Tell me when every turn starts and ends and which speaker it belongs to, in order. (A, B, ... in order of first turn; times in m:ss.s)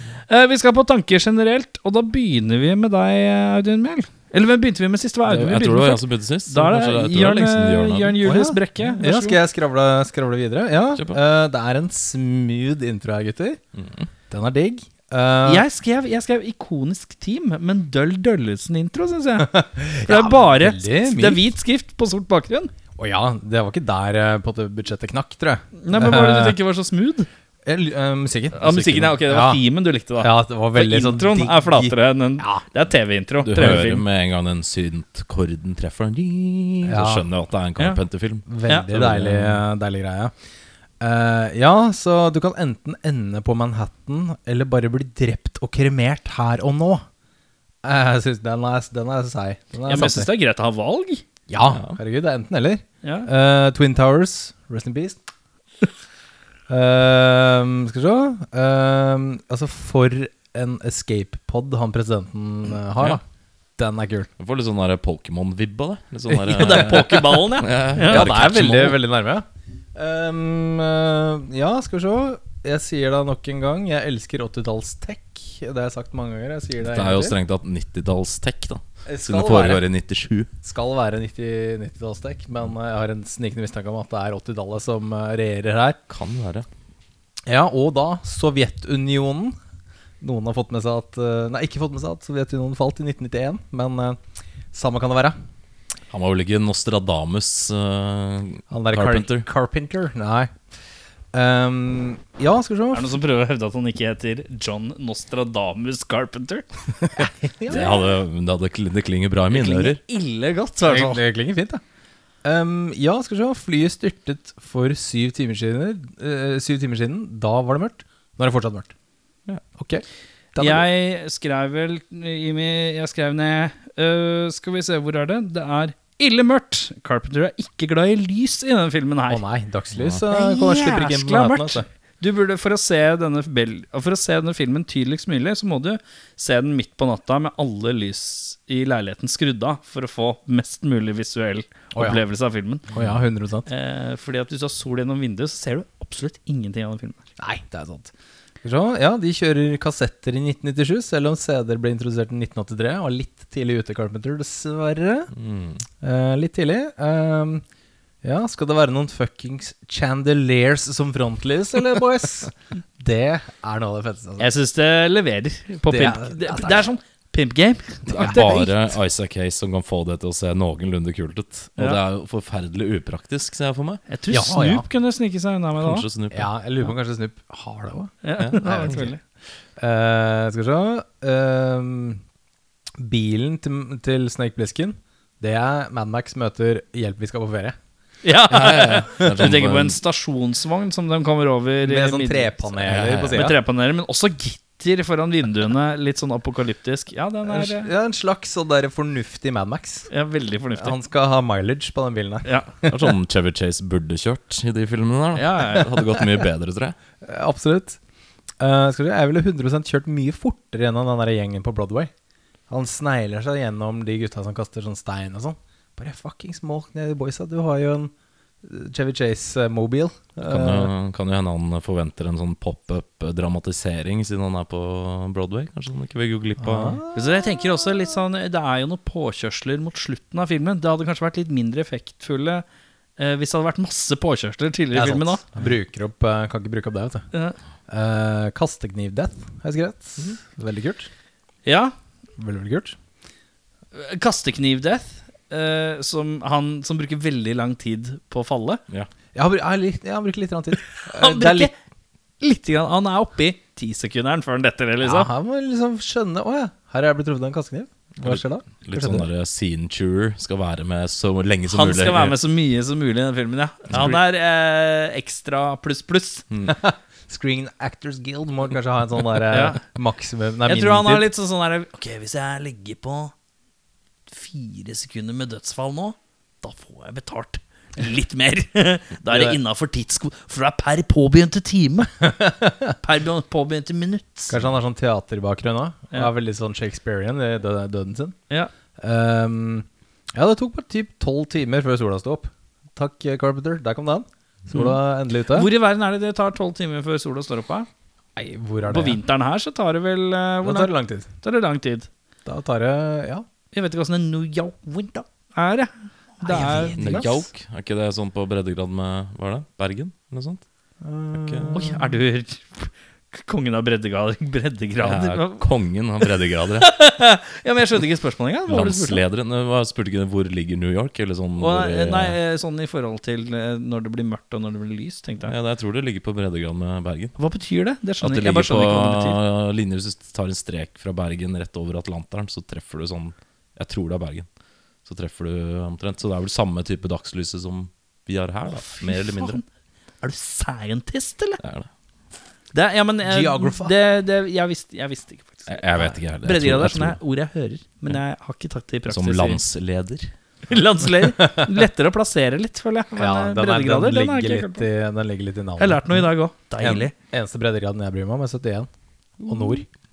0:00.3-0:09.4 A
0:05.3-0:08.3 B
0:08.2-0:13.6 C
0:13.8-0:14.1 B
0:14.3-0:15.6 C
0:15.4-0:19.5 A
0:19.4-0:21.4 C
0:20.0-0:22.7 A
0:23.0-0:26.6 C
0:25.8-0:27.3 A
0:27.6-0:29.6 C
0:28.5-0:34.0 A
0:30.2-0:32.6 C
0:33.4-0:39.6 B
0:36.8-0:37.3 C
0:38.5-0:40.3 C
0:41.0-0:47.0 C
0:47.8-0:50.3 C
0:49.8-0:51.2 A
0:51.5-0:55.2 C
0:51.7-0:52.0 B
0:53.0-0:53.3 A
0:56.7-1:03.2 C
1:03.8-1:04.3 C
1:04.4-1:09.0 B
1:06.3-1:07.3 C
1:06.5-1:08.3 A
1:08.0-1:17.3 C
1:16.8-1:20.5 B
1:19.0-1:19.8 C
1:20.6-1:26.0 C
1:26.1-1:26.6 B
1:27.4-1:29.6 C
1:30.2-1:34.2 C
1:34.7-1:35.4 C
1:36.1-1:39.5 B
1:38.7-1:40.5 C
1:41.3-1:43.1 C
1:42.9-1:46.7 A
1:47.2-1:48.2 C
1:47.7-1:50.0 B
1:49.5-1:51.2 A
1:50.8-1:51.8 C
1:52.4-1:58.9 C
1:59.8-2:00.0 C
2:00.5-2:00.8 C
2:00.6-2:09.4 A
2:09.3-2:11.8 C
2:10.3-2:22.8 A
2:21.9-2:22.2 C
2:22.9-2:23.7 C
2:23.7-2:27.2 A
2:27.4-2:28.1 C
2:28.6-2:35.3 C
2:35.3-2:35.8 B
2:36.0-2:37.6 C
2:38.2-2:44.5 C
2:44.4-2:48.6 A
2:45.8-2:46.9 C
2:48.1-2:48.7 C
2:48.1-2:54.0 B
2:54.1-2:56.1 A
2:54.3-2:54.9 C
2:55.8-2:56.5 B
2:56.3-2:59.1 C
2:58.2-2:59.2 A
2:59.8-3:02.2 C
3:03.0-3:07.8 C
3:08.2-3:12.7 A
3:08.5-3:10.0 B
3:11.8-3:13.6 C
3:12.8-3:13.5 B
3:13.3-3:17.9 A
3:17.5-3:20.1 C
3:20.1-3:21.0 A
3:20.8-3:23.1 C
3:22.9-3:27.0 B
3:25.3-3:25.9 A
3:27.2-3:28.0 C
3:28.6-3:32.1 C
3:32.7-3:40.9 C
3:40.4-3:47.0 B
3:46.6-3:47.2 C
3:47.1-3:52.6 A
3:53.2-3:55.4 A
3:54.9-3:57.2 C
3:57.3-3:57.6 A
3:57.9-4:01.1 C
4:01.6-4:01.9 A
4:02.4-4:03.0 C
4:03.9-4:08.8 A
4:09.3-4:11.7 C
4:11.1-4:11.7 A
4:12.4-4:15.3 A
4:15.0-4:19.2 C
4:18.2-4:22.4 B
4:21.7-4:26.4 A
4:23.9-4:24.2 B
4:26.6-4:31.3 C
4:29.5-4:29.8 A
4:30.7-4:33.3 A
4:34.3-4:42.1 A
4:39.3-4:39.6 C
4:42.2-4:42.9 C
4:43.0-4:44.6 A
4:44.5-4:48.4 C
4:49.0-4:55.7 C
4:54.7-4:55.0 A
4:55.5-4:57.9 A
4:58.4-4:59.2 C
4:58.9-5:02.1 A
5:00.6-5:01.3 C
5:02.4-5:03.4 C
5:03.7-5:07.3 A
5:06.4-5:07.5 C
5:07.0-5:10.6 B
5:11.0-5:12.2 C
5:11.3-5:11.8 B
5:11.7-5:15.6 A
5:15.0-5:16.9 B
5:16.8-5:19.2 A
5:18.7-5:22.4 B
5:21.6-5:25.5 A
5:25.4-5:27.4 B
5:27.4-5:29.4 A
5:28.2-5:34.5 B
5:35.0-5:39.6 B
5:38.7-5:39.6 A
5:40.2-5:41.6 A
5:41.6-5:41.9 B
5:42.7-5:49.6 A
5:43.2-5:43.9 C
5:45.7-5:47.2 B
5:49.1-5:50.3 B
5:50.7-5:54.8 A
5:51.4-5:51.7 C
5:53.2-5:56.0 C
5:55.8-5:57.1 A
5:56.8-5:58.9 C
5:59.4-5:59.8 C